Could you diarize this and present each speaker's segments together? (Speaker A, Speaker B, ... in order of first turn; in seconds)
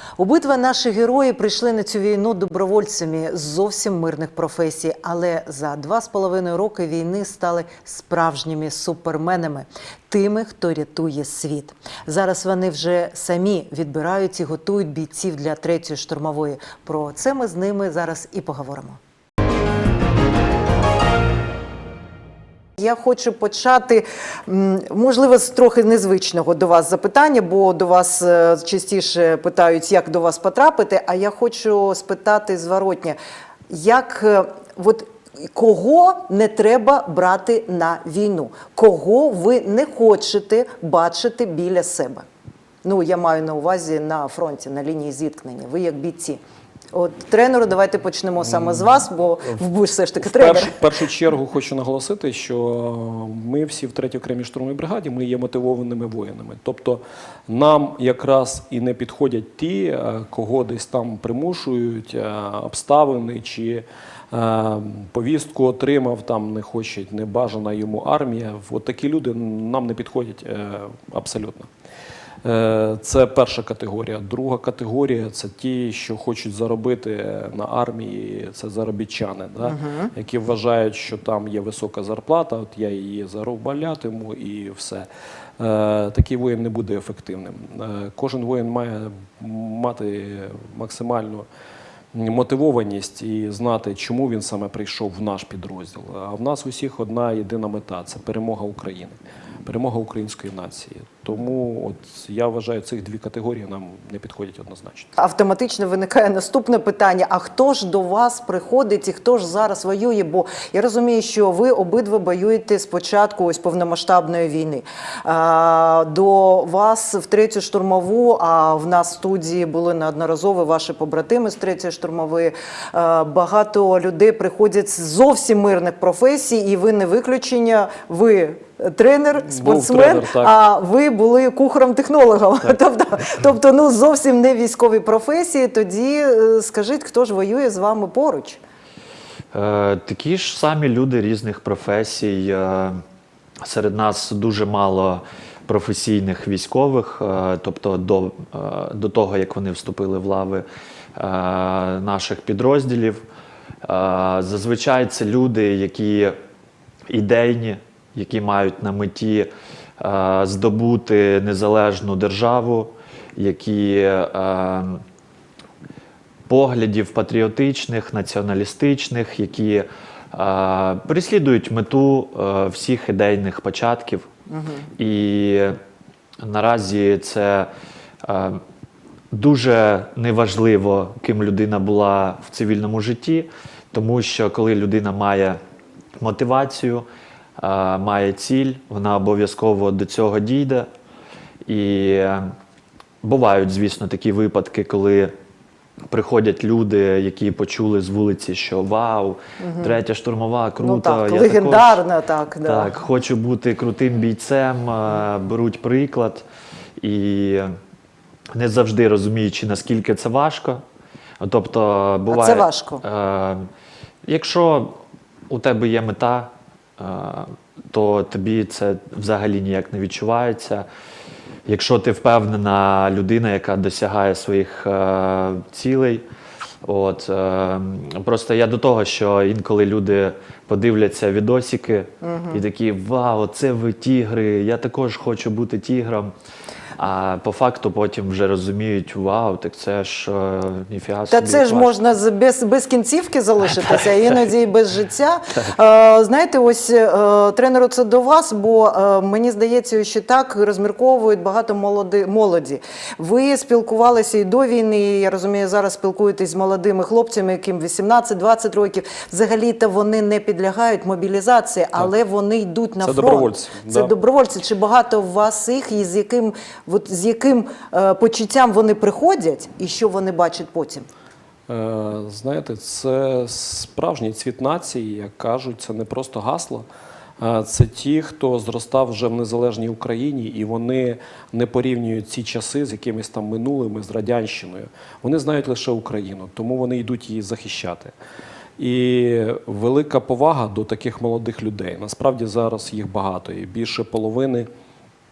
Speaker A: 0.2-19.0, 22.8-33.2, 33.7-42.3, 42.8-46.4, 46.9-50.7, 79.7-80.1, 105.2-138.6, 174.5-174.9, 199.6-200.0, 200.8-202.9, 212.3-213.0, 232.2-232.6, 241.3-271.1
Speaker B: 48.5-49.0, 50.2-71.7, 72.4-85.1, 85.6-91.5, 92.1-105.1, 129.4-130.5, 263.0-264.1, 271.7-276.9, 277.4-288.1, 288.8-294.7
Speaker C: 139.5-143.0, 143.6-153.2, 153.8-156.4, 157.1-165.0, 166.5-174.3, 175.0-175.8, 176.4-177.7, 178.2-178.6, 179.3-185.6, 186.2-187.1, 187.6-190.9, 191.7-192.5, 193.2-195.3, 196.1-202.0, 202.7-206.4, 207.0-207.7, 208.5-210.8, 211.4-213.7, 214.3-215.0, 215.5-220.9, 221.7-226.2, 226.8-236.3, 237.0-242.0